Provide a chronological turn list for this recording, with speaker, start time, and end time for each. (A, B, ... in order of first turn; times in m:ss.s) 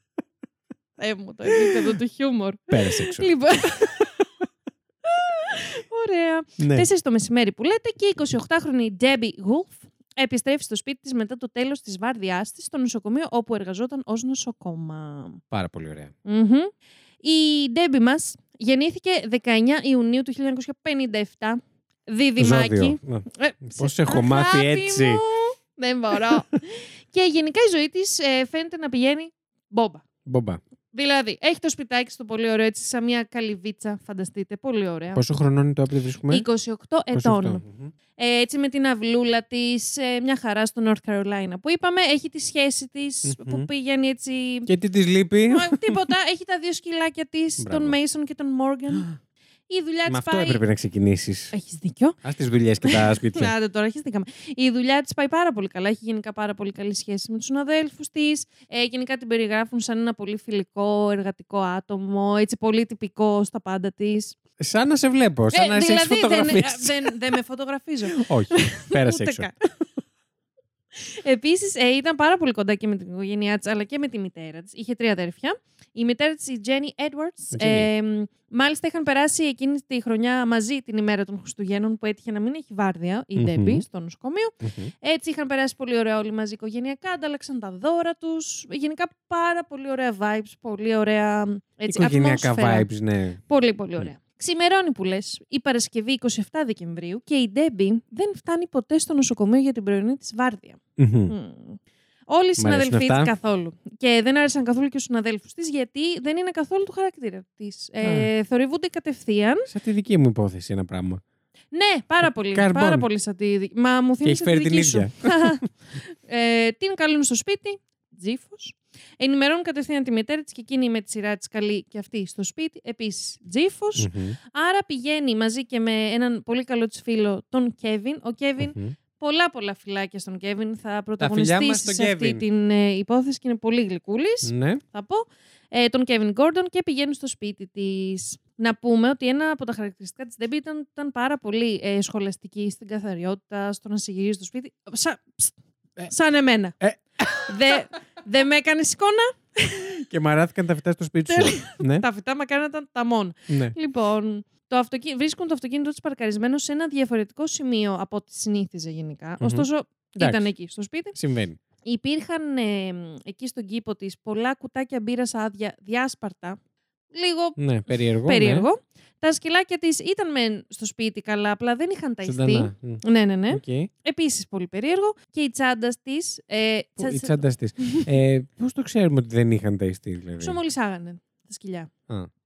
0:01.0-0:04.1 A
0:01.6-0:01.9 B
0:02.7-0:03.3 B
0:05.0-0:15.4 A
0:06.6-0:06.9 B
0:15.5-0:16.1 B
0:16.2-0:16.7 A
0:17.2-0:30.0 A
0:22.4-0:25.2 B
0:30.3-0:30.6 B
0:30.9-0:35.2 A
0:35.2-0:36.5 B
0:36.3-0:37.6 A
0:37.1-0:37.9 B
0:38.2-0:44.7 A
0:43.2-0:43.7 B
0:44.7-0:46.0 B
0:45.5-0:49.2 A
0:47.6-0:48.0 B
0:49.7-0:50.6 A
0:50.1-0:51.5 B
0:51.5-0:52.2 A
0:52.2-0:53.5 B
0:52.8-1:04.4 A
1:04.6-1:07.2 B
1:05.5-1:09.6 A
1:08.1-1:09.5 B
1:11.0-1:32.9 A
1:17.5-1:17.9 B
1:23.4-1:23.8 B
1:24.6-1:24.9 B
1:31.9-1:33.4 B
1:33.5-1:49.7 A
1:41.0-1:41.3 B
1:42.6-1:43.3 B
1:48.0-1:48.3 B
1:49.7-1:51.2 B
1:51.7-2:26.8 A
1:52.2-1:53.1 B
1:54.2-1:55.6 B
2:04.0-2:04.4 B
2:08.6-2:09.0 B
2:11.2-2:12.4 B
2:14.4-2:14.8 B
2:26.8-2:27.7 B
2:27.4-2:30.0 A
2:30.0-2:32.0 B
2:31.3-2:41.2 A
2:33.5-2:33.8 B
2:39.4-2:40.5 B
2:41.2-2:41.6 B
2:41.8-2:46.6 A
2:47.1-2:47.6 A
2:47.6-2:48.7 B
2:48.2-2:58.1 A
2:52.2-2:53.9 B
2:57.0-3:00.6 B
3:00.4-3:01.9 A